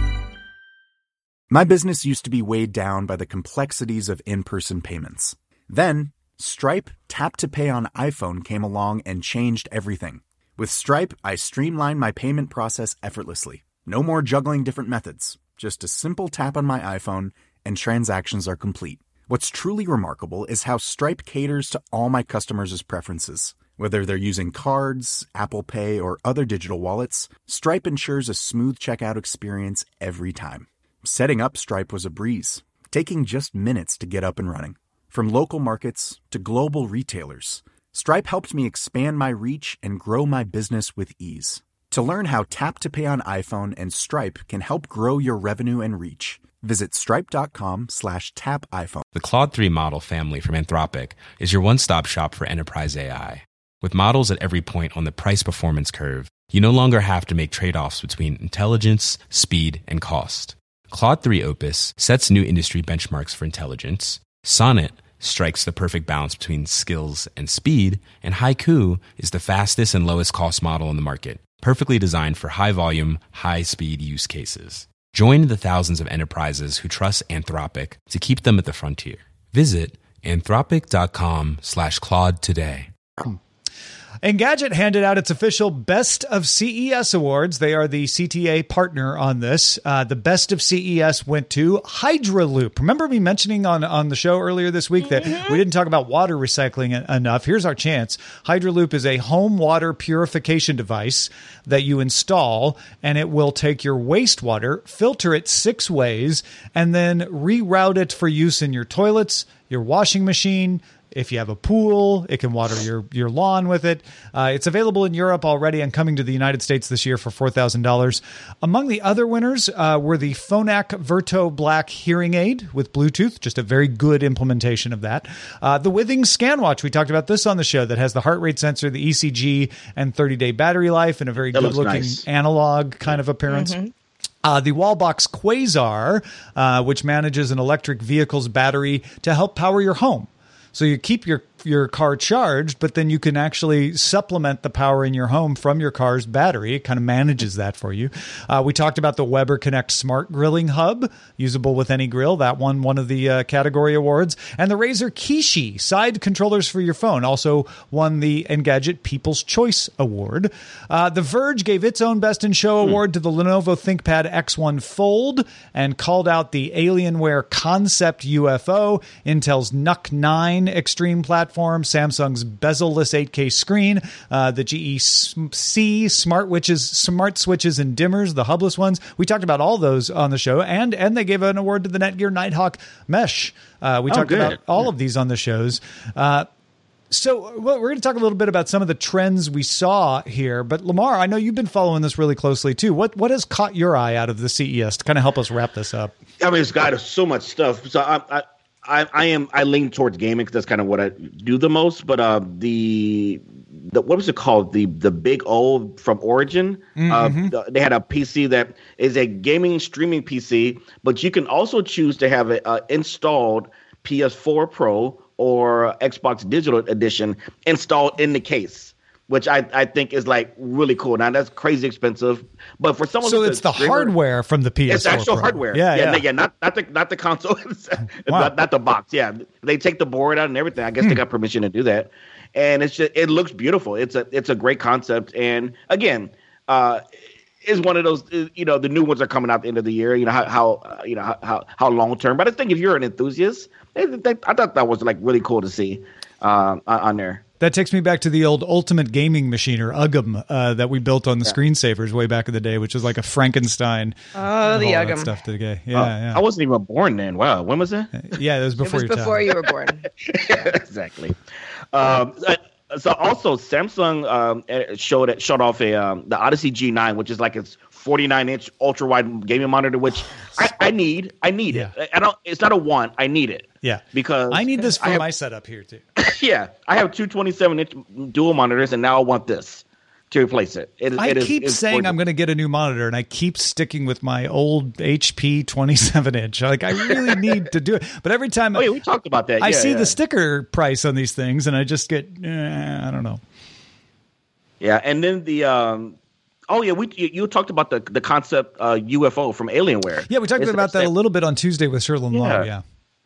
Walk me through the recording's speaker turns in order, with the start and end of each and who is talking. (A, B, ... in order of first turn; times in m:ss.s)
0:01.5-0:49.0 A
0:49.1-1:22.9 B
1:24.2-2:13.7 C
1:35.2-1:35.6 D
2:11.5-2:12.2 E
2:13.5-2:13.9 D
2:14.4-3:06.5 C
3:04.1-3:04.8 E
3:07.1-3:16.1 C
3:16.4-3:44.1 E
3:27.0-3:27.5 C
3:43.2-3:46.2 C
3:44.9-3:57.0 E
3:48.3-3:48.5 C
3:57.6-4:07.4 E
4:07.6-4:16.4 C
4:14.3-4:15.3 D
4:15.9-4:18.1 E
4:18.1-4:19.4 C
4:18.8-4:20.1 D
4:20.2-4:21.4 E
4:21.9-4:35.2 E
4:33.8-4:36.0 C
4:36.2-4:42.1 E
4:41.2-4:48.8 C
4:48.7-4:50.1 E
4:49.6-4:53.4 C
4:54.8-4:56.2 E
4:56.7-5:01.1 E
5:00.3-5:02.8 C
5:02.3-5:02.7 E